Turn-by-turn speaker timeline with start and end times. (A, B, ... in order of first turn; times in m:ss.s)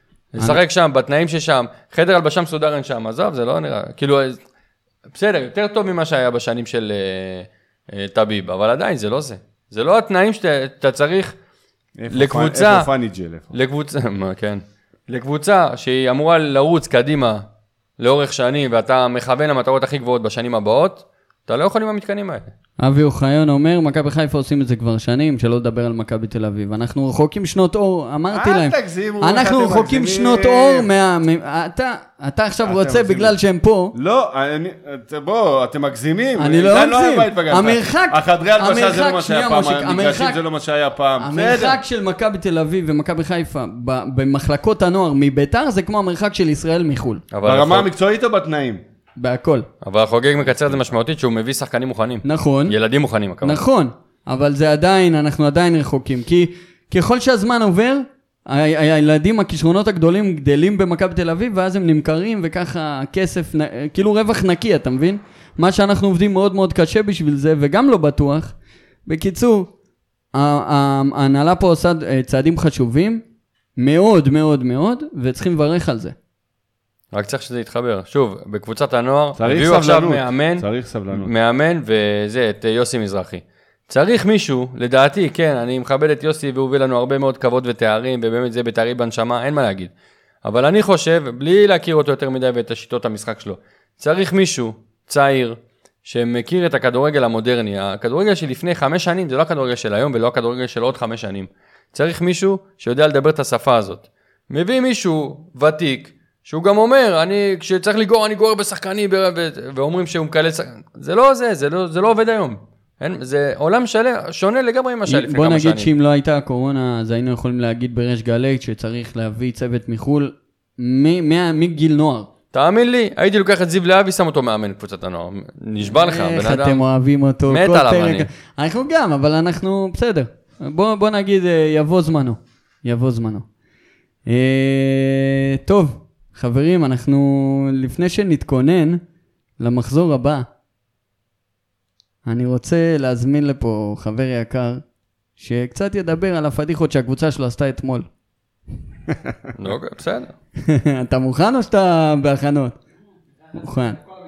0:00.3-0:04.4 A
0:05.1-0:11.3 A
0:12.0-0:13.5 B
0:12.1-0:12.9 A
0:13.5-0:17.4 A
0:18.0-0:22.5 A
0:22.8-0:34.0 C
0:28.3-0:30.9 B
0:32.6-0:33.4 B
0:33.9-0:41.8 B
0:36.4-0:40.4 C
0:41.2-0:47.2 C
0:47.3-0:47.9 A
0:47.4-0:48.8 B
0:49.2-0:49.7 C
0:49.8-0:53.6 A
0:52.2-0:52.8 C
0:53.4-1:08.6 C
1:09.1-1:09.7 C
1:10.3-1:13.2 C
1:13.8-1:16.2 C
1:17.1-1:29.9 A
1:19.4-1:21.3 B
1:30.4-1:55.9 A
1:55.1-2:02.3 C
2:02.5-2:06.8 A
2:05.8-2:13.5 C
2:07.5-2:08.3 A
2:14.3-2:19.0 C
2:19.6-2:20.5 C
2:22.2-2:24.8 C
2:25.4-2:28.1 C
2:29.6-2:30.3 A
2:30.6-2:32.8 C
2:33.5-2:34.0 C